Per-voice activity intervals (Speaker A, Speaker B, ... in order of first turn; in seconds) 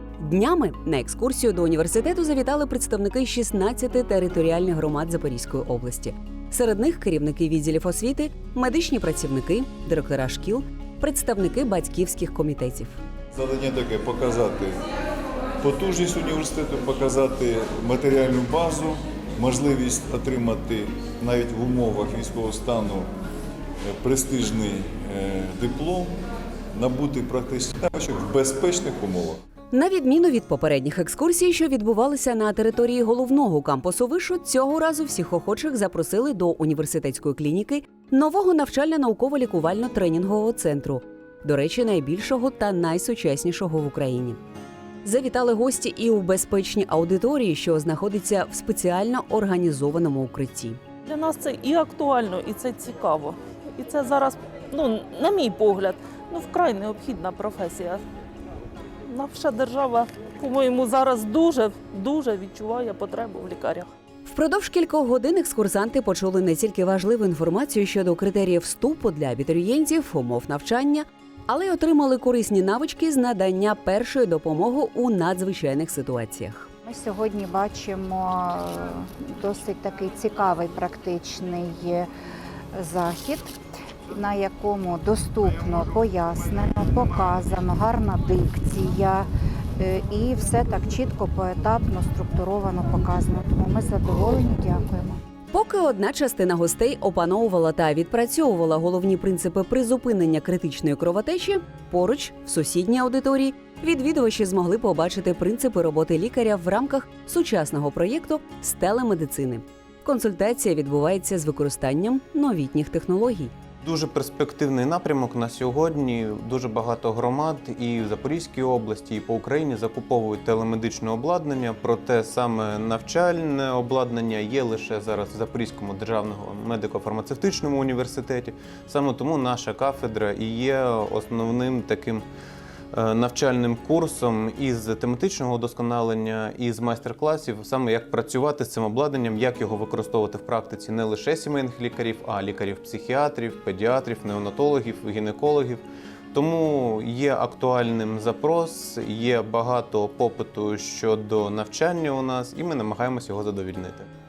Speaker A: 0.2-13.0, 29.7-44.4, 45.0-50.8, 64.3-76.7, 95.5-113.5
Speaker B: 13.3-14.8, 15.6-23.1, 23.8-26.1, 26.7-29.4
Speaker C: 51.0-58.0, 59.0-63.9
Speaker D: 76.8-82.1, 82.7-83.6, 84.1-95.2
Speaker E: 113.8-132.2, 132.9-154.1